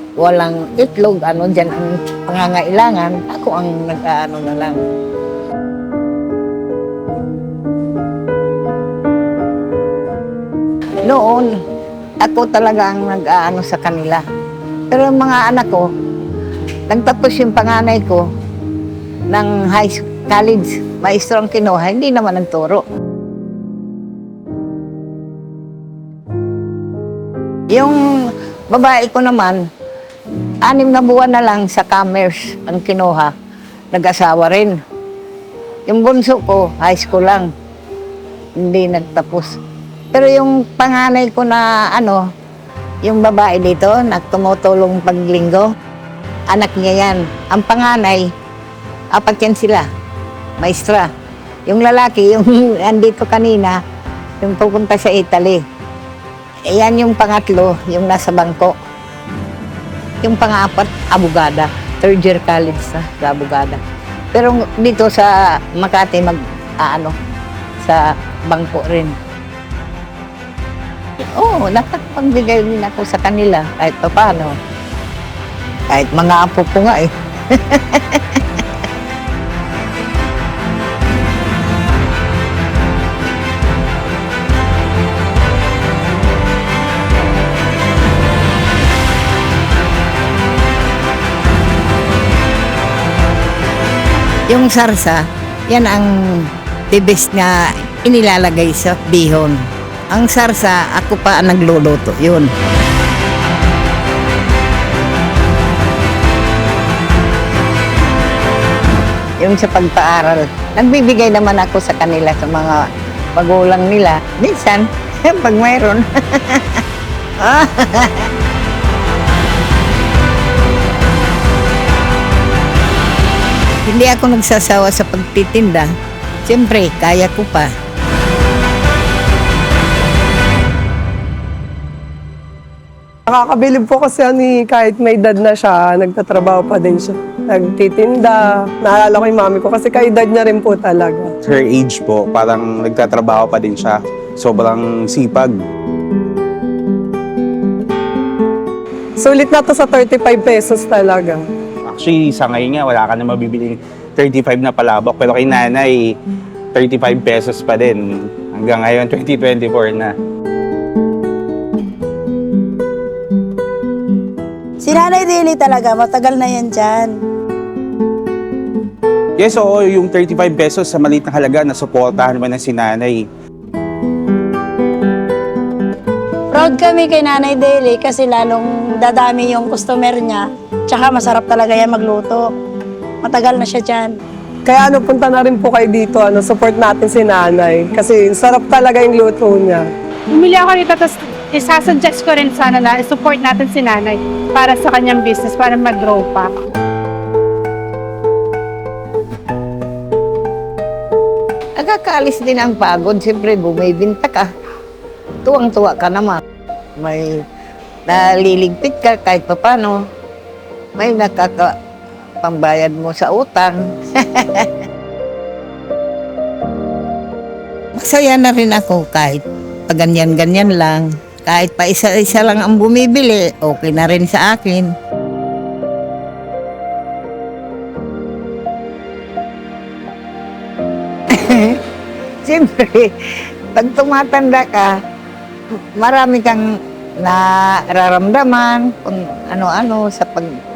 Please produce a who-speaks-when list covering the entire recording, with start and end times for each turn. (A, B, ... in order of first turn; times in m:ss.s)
0:00.2-0:04.8 A
0:11.0-0:11.5 A
0:12.2-0:14.2 A
0:14.9-0:15.9 A
0:16.9-0:18.2 A
0:19.3-0:22.8 A
0:27.7-0:29.6 A
0:30.6-0:33.3 A
0:33.9-0:34.8 A
0:35.9-0:37.5 A
0:38.6-0:39.5 A
0:40.1-0:42.2 A
0:43.0-0:45.7 A
0:46.5-0:48.3 A
0:49.1-0:49.9 A
0:50.6-0:51.1 A
0:51.7-0:53.8 A
0:54.4-0:55.6 A
0:56.7-0:58.8 A
1:00.2-1:03.8 A
1:04.3-1:07.2 A
1:07.8-1:09.2 A
1:11.2-1:14.6 A
1:15.9-1:18.6 A
1:34.5-1:39.6 A
1:40.1-1:42.5 A
1:49.4-1:52.8 A
1:53.4-1:56.8 A
1:57.4-1:58.3 A
2:03.8-2:05.9 A
2:06.4-2:07.7 A
2:13.3-2:21.3 B
2:21.4-2:25.6 C
2:29.2-2:31.4 B
2:31.9-2:36.1 C
2:36.7-2:40.1 C
2:44.8-2:47.2 D
2:49.4-2:53.3 C
2:56.5-3:02.5 D
3:03.2-3:04.2 D
3:04.6-3:09.9 B
3:10.3-3:16.5 E
3:21.8-3:24.5 A
3:25.4-3:26.4 A
3:27.0-3:27.4 A
3:28.1-3:30.0 A
3:31.0-3:31.7 A
3:32.4-3:34.8 A
3:38.0-3:44.9 A
3:51.3-3:51.8 A
3:52.4-3:55.0 A
3:55.7-3:56.6 A
3:57.2-4:00.5 A